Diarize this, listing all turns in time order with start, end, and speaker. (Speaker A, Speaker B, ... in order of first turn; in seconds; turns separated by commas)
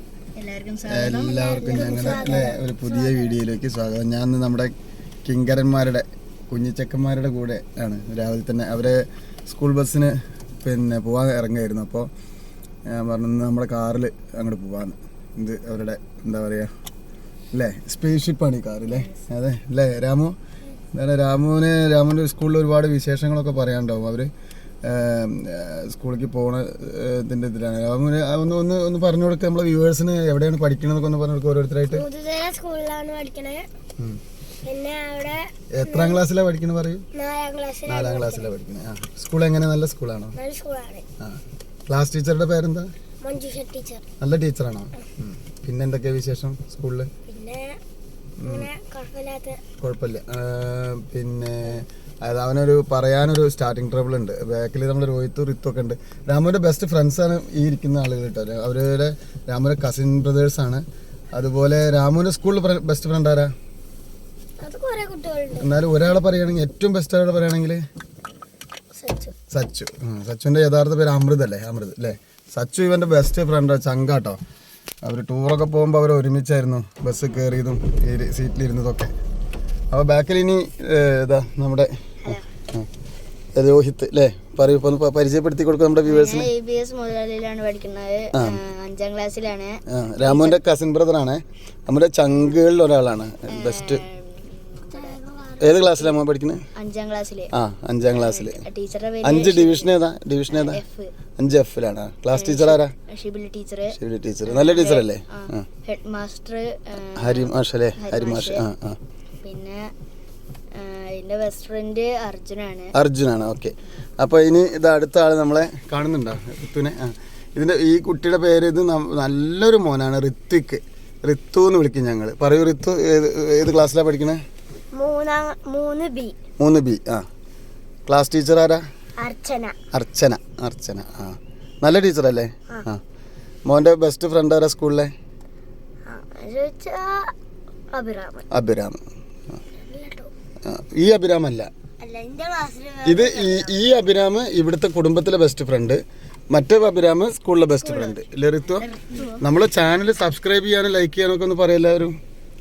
Speaker A: 0.3-2.5, Speaker B: 0.9-4.7, Speaker C: 1.3-3.4, Speaker B: 5.2-12.1, Speaker B: 12.9-16.7, Speaker B: 17.5-20.3, Speaker A: 18.9-19.2, Speaker B: 20.9-24.3, Speaker B: 24.8-32.1, Speaker C: 31.9-33.7, Speaker C: 34.6-36.2, Speaker B: 35.7-37.0, Speaker C: 37.1-38.5, Speaker B: 37.9-40.3, Speaker C: 40.4-41.0, Speaker B: 41.2-42.9, Speaker C: 43.2-44.0, Speaker B: 44.2-47.1, Speaker C: 47.3-47.8, Speaker B: 48.4-48.7, Speaker C: 48.4-49.6, Speaker B: 49.8-60.8, Speaker B: 61.4-63.5, Speaker C: 64.6-65.7, Speaker B: 65.6-67.8, Speaker C: 69.0-69.3, Speaker B: 69.5-74.4, Speaker B: 75.0-79.1, Speaker B: 79.9-82.9, Speaker B: 83.5-86.5, Speaker A: 86.0-90.6, Speaker B: 88.3-88.6, Speaker B: 89.9-94.0, Speaker A: 93.5-95.2, Speaker C: 94.9-95.8, Speaker B: 95.6-96.6, Speaker A: 95.8-96.2, Speaker A: 96.7-97.5, Speaker B: 97.5-98.6, Speaker A: 98.1-100.0, Speaker B: 99.2-100.8, Speaker A: 100.5-101.1, Speaker B: 101.4-102.9, Speaker A: 102.3-108.6, Speaker B: 103.9-105.7, Speaker B: 107.2-109.0, Speaker A: 109.4-109.8, Speaker A: 110.8-112.9, Speaker B: 112.9-124.4, Speaker C: 125.0-126.4, Speaker B: 126.6-127.2, Speaker B: 128.1-128.8, Speaker C: 129.2-129.8, Speaker B: 129.9-133.0, Speaker B: 133.7-135.1, Speaker C: 136.1-137.3, Speaker C: 137.9-138.4, Speaker B: 138.5-139.0, Speaker C: 139.8-140.3, Speaker B: 140.7-141.7, Speaker C: 142.0-144.0, Speaker B: 143.0-146.0, Speaker B: 146.5-152.2, Speaker C: 147.8-148.2, Speaker A: 148.8-149.4